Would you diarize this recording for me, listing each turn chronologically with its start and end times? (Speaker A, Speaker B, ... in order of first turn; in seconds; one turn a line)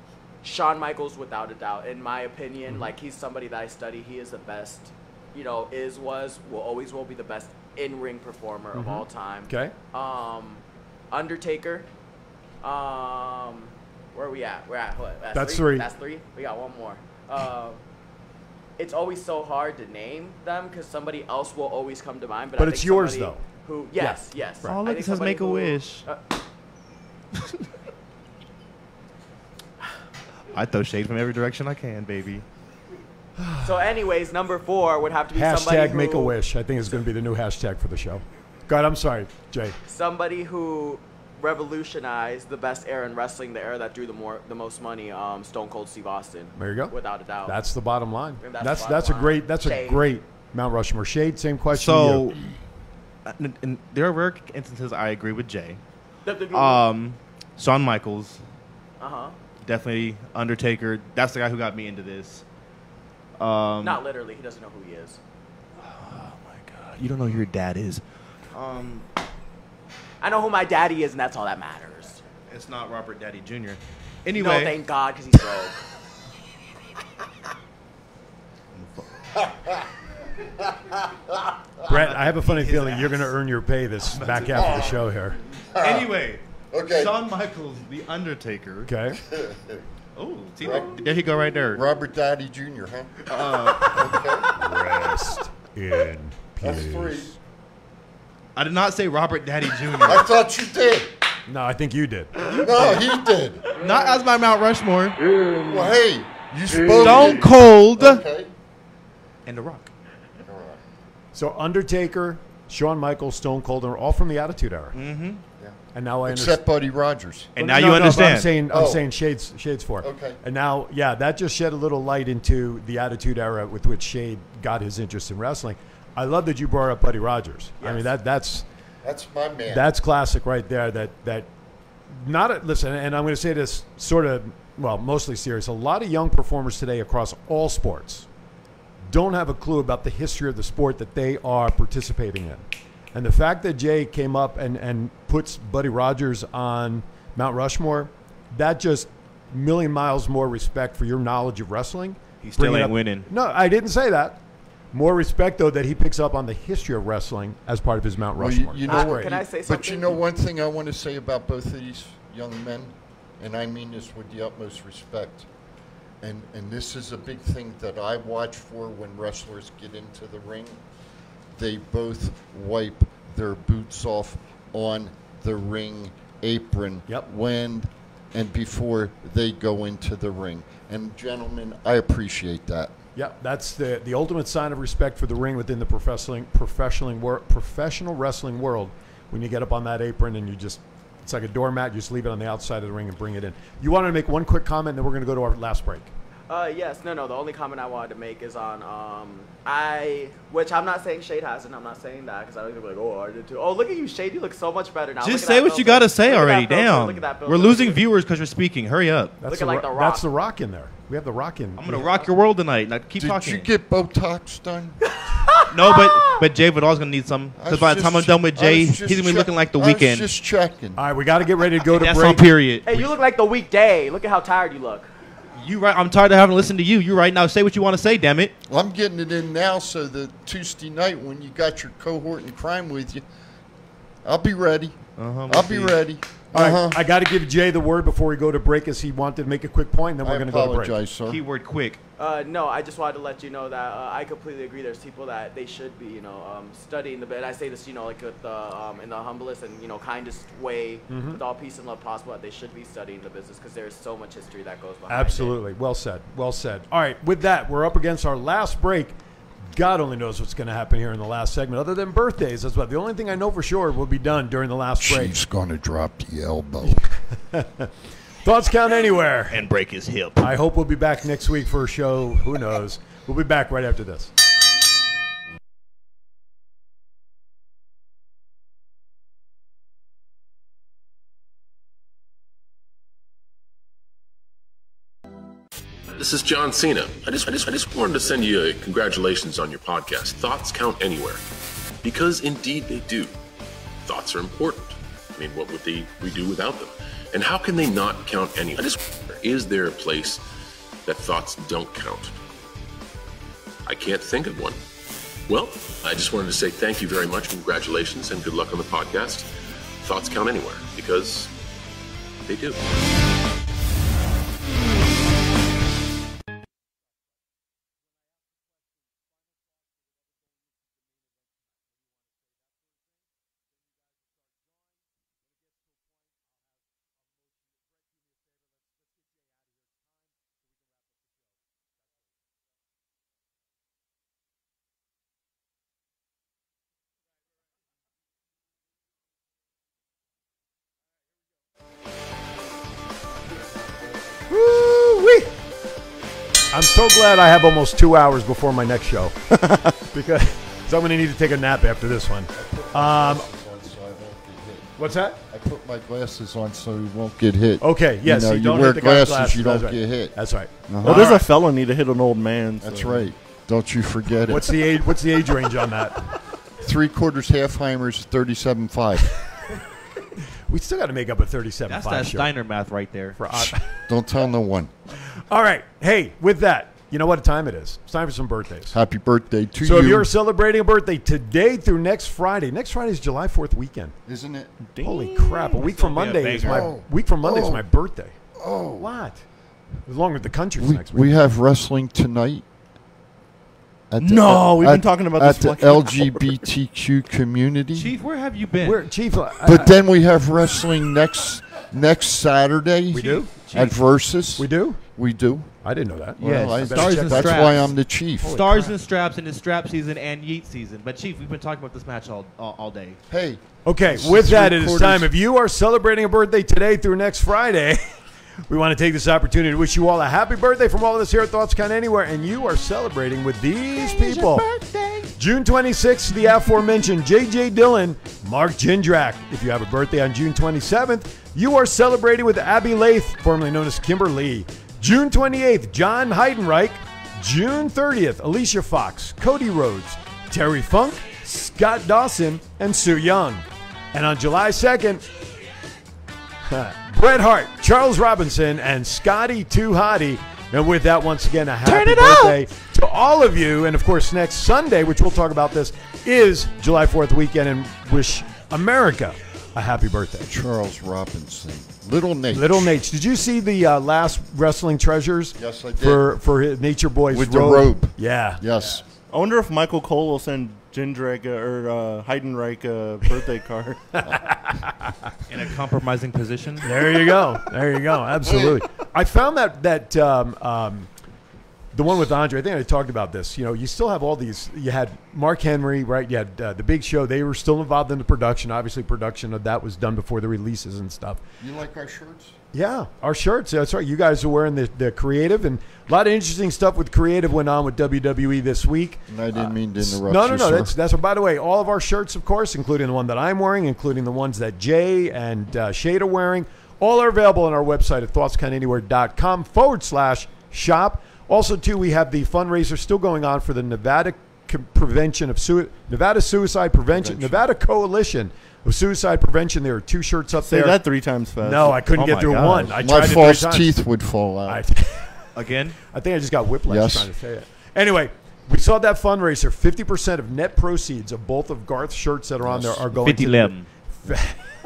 Speaker A: 0.4-11.9
Speaker B: 2.7-2.9
Speaker B: 8.7-9.7
Speaker A: 12.6-17.8
Speaker B: 15.3-15.9
Speaker A: 18.8-26.2
Speaker B: 22.6-23.4
Speaker B: 24.0-24.7
Speaker C: 24.6-26.1
Speaker C: 30.5-32.5
Speaker B: 33.4-33.8
Speaker A: 33.6-36.4
Speaker B: 35.3-39.8
Speaker A: 39.9-47.6
Speaker B: 46.6-46.9
Speaker B: 47.5-52.3
Speaker A: 48.4-50.0
Speaker C: 51.7-52.4
Speaker C: 53.3-55.8
Speaker A: 56.2-56.9
Speaker C: 56.5-58.4
Speaker A: 59.0-59.4
Speaker C: 59.6-62.4
Speaker C: 63.4-64.0
Speaker A: 63.8-65.2
Speaker C: 65.8-69.1
Speaker A: 70.2-72.2
Speaker C: 72.5-74.8
Speaker A: 74.3-75.8
Speaker C: 78.8-79.1
Speaker C: 81.9-83.3
Speaker B: 81.9-85.4
Speaker C: 84.1-84.8
Speaker D: 84.2-85.0
Speaker D: 85.7-86.1
Speaker C: 85.8-88.9
Speaker D: 86.7-87.2
Speaker B: 88.9-89.2
Speaker D: 89.2-89.9
Speaker C: 90.2-91.8
Speaker D: 90.6-91.1
Speaker D: 91.7-94.5
Speaker C: 93.3-94.1
Speaker B: 94.6-97.4
Speaker D: 96.6-97.3
Speaker C: 98.6-100.3
Speaker D: 100.0-101.1
Speaker B: 101.5-102.5
Speaker D: 102.5-103.7
Speaker C: 102.5-103.0
Speaker C: 103.8-105.2
Speaker D: 105.6-108.5
Speaker C: 106.8-108.2
Speaker C: 109.5-109.9
Speaker D: 110.4-110.8
Speaker B: 111.3-115.0
Speaker C: 114.9-115.4
Speaker D: 115.6-117.5
Speaker B: 115.9-116.6
Speaker C: 117.5-118.5
Speaker B: 117.6-128.7
Speaker D: 118.7-119.0
Speaker D: 120.0-120.4
Speaker A: 127.8-128.1
Speaker D: 129.0-129.9
Speaker B: 129.7-131.5
Speaker B: 132.1-138.3
Speaker B: 139.1-154.4
Speaker C: 152.4-153.3
Speaker B: 154.9-159.4
Speaker D: 158.4-165.5
Speaker A: 158.9-160.2
Speaker D: 166.2-170.8
Speaker D: 171.5-182.9
Speaker B: 183.2-196.1
Speaker A: 196.5-208.0
Speaker C: 205.2-209.4
Speaker B: 209.4-212.1
Speaker A: 209.5-210.2
Speaker C: 211.8-213.7
Speaker D: 213.2-215.0
Speaker A: 215.3-216.4
Speaker C: 215.7-220.3
Speaker D: 217.6-221.0
Speaker B: 221.0-222.5
Speaker C: 221.9-223.1
Speaker A: 222.9-225.1
Speaker C: 225.6-228.5
Speaker D: 228.7-233.2
Speaker D: 234.2-237.0
Speaker C: 235.2-236.0
Speaker B: 236.5-241.0
Speaker D: 240.2-241.4
Speaker C: 241.3-242.0
Speaker A: 242.2-255.6
Speaker B: 251.1-251.4
Speaker B: 255.1-259.2
Speaker B: 259.7-265.4
Speaker D: 265.0-267.0
Speaker B: 266.8-267.9
Speaker B: 268.4-269.6
Speaker C: 269.5-270.5
Speaker B: 270.4-274.3
Speaker E: 286.1-291.4
Speaker E: 292.0-293.4
Speaker E: 294.0-300.4
Speaker E: 301.1-302.4
Speaker E: 303.9-304.8
Speaker E: 305.5-309.5
Speaker E: 310.0-311.5
Speaker E: 312.5-312.8
Speaker B: 344.5-345.5
Speaker B: 346.7-349.4
Speaker B: 349.9-353.5
Speaker D: 352.6-355.0
Speaker B: 355.0-355.4
Speaker D: 355.5-360.4
Speaker B: 357.8-361.5
Speaker D: 360.9-361.4
Speaker F: 361.0-363.3
Speaker D: 362.8-364.7
Speaker B: 364.5-366.4
Speaker D: 366.8-369.3
Speaker B: 370.7-372.5
Speaker C: 371.9-373.4
Speaker B: 373.4-373.8
Speaker D: 374.1-374.9
Speaker B: 375.3-379.0
Speaker D: 378.9-380.3
Speaker B: 379.8-384.1
Speaker D: 384.3-384.8
Speaker F: 384.9-385.7
Speaker B: 385.0-388.4
Speaker C: 385.7-386.9
Speaker D: 386.6-387.8
Speaker D: 388.6-389.1
Speaker B: 389.0-389.4
Speaker B: 390.1-391.3
Speaker D: 390.8-392.6
Speaker D: 394.1-398.1
Speaker C: 394.2-396.2
Speaker F: 394.9-396.3
Speaker C: 397.9-399.0
Speaker B: 398.8-400.0
Speaker D: 399.6-405.8
Speaker B: 403.1-403.5
Speaker C: 403.2-404.0
Speaker B: 404.6-405.0
Speaker B: 405.8-409.0
Speaker D: 406.4-408.6
Speaker C: 406.5-413.2
Speaker D: 413.3-415.3
Speaker B: 413.9-424.7
Speaker D: 424.0-425.3
Speaker B: 425.4-445.3
Speaker B: 446.7-460.5
Speaker D: 460.4-462.9
Speaker B: 462.5-468.6
Speaker D: 465.6-466.3
Speaker D: 467.3-469.0
Speaker F: 469.3-474.1
Speaker B: 474.4-475.2
Speaker C: 475.5-476.9
Speaker B: 476.8-481.1
Speaker D: 478.4-478.8
Speaker B: 481.9-491.4
Speaker D: 491.6-492.6
Speaker B: 492.7-521.0
Speaker D: 499.3-500.9
Speaker D: 517.1-517.6
Speaker F: 520.6-522.0
Speaker B: 521.6-524.0
Speaker C: 522.1-522.9
Speaker D: 523.0-524.8
Speaker B: 524.7-525.4
Speaker C: 525.5-526.0
Speaker B: 526.1-534.6
Speaker D: 526.9-527.3
Speaker D: 532.6-533.1
Speaker C: 533.2-533.9